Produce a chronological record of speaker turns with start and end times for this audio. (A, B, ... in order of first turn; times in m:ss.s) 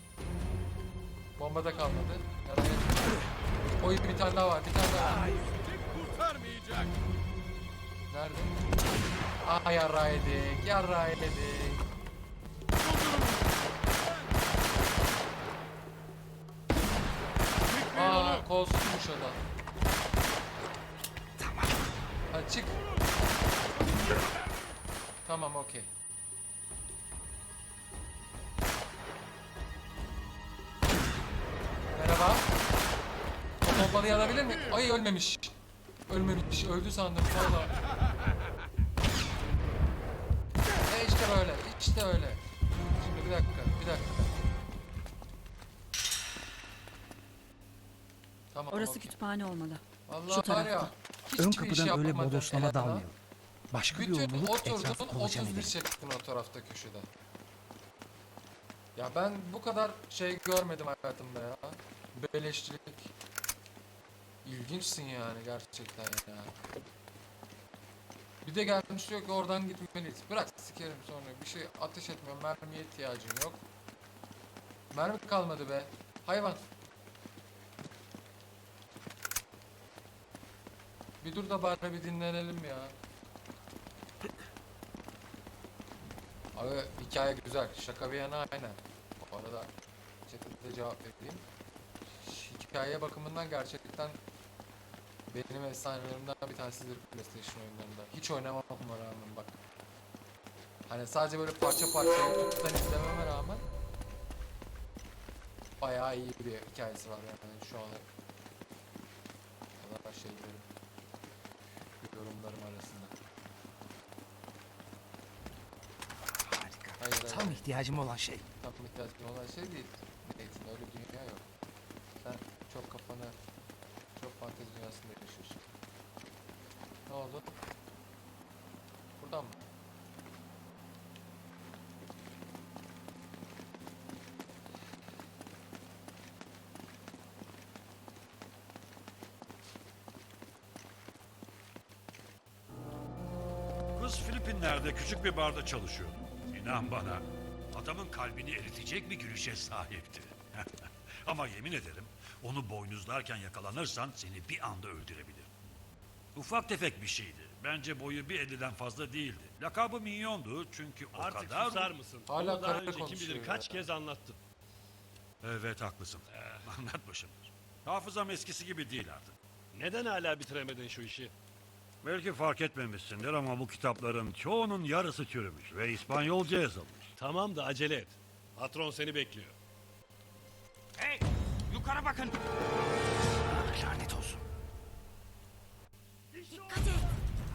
0:01.4-0:03.1 A
0:03.8-0:05.4 A
0:08.1-0:08.6 A
0:09.4-0:11.8 A
0:17.8-0:19.4 A
0:21.4-0:21.8 B
0:22.3-0:22.8 A
0:25.2-0:25.9 A
0:32.0-0:32.5 A
0:33.6-0:35.6 A
0:36.1-0:37.8 A
0:40.9-0:42.4 A
0:43.0-0:44.4 A
0:48.5-0:49.1 A
0:48.7-0:50.9 C
0:50.1-0:53.1 A
0:51.4-0:53.2 B
0:53.7-0:55.8 B
0:53.9-0:57.1 A
0:59.0-1:03.1 A
1:04.4-1:06.6 A
1:08.4-1:13.6 A
1:14.9-1:16.6 A
1:21.2-1:22.9 A
1:26.5-1:29.7 A
1:30.3-1:31.5 A
1:32.1-1:34.2 A
1:35.3-1:39.6 A
1:40.9-1:43.6 A
1:45.8-1:48.1 A
1:49.8-1:50.7 A
1:52.0-1:53.1 A
1:56.2-1:58.5 B
1:57.0-1:57.6 A
1:58.6-2:01.5 A
2:02.2-2:03.4 A
2:04.1-2:05.6 A
2:07.1-2:07.5 A
2:09.2-2:09.6 A
2:24.0-2:35.5 D
2:36.3-2:42.0 D
2:41.1-2:44.4 E
2:42.3-2:43.9 A
2:45.4-2:49.4 D
2:46.3-2:46.7 E
2:49.7-2:51.3 E
2:52.0-2:57.1 D
2:57.2-2:59.6 E
3:01.0-3:02.4 E
3:03.5-3:04.4 B
3:06.5-3:07.2 C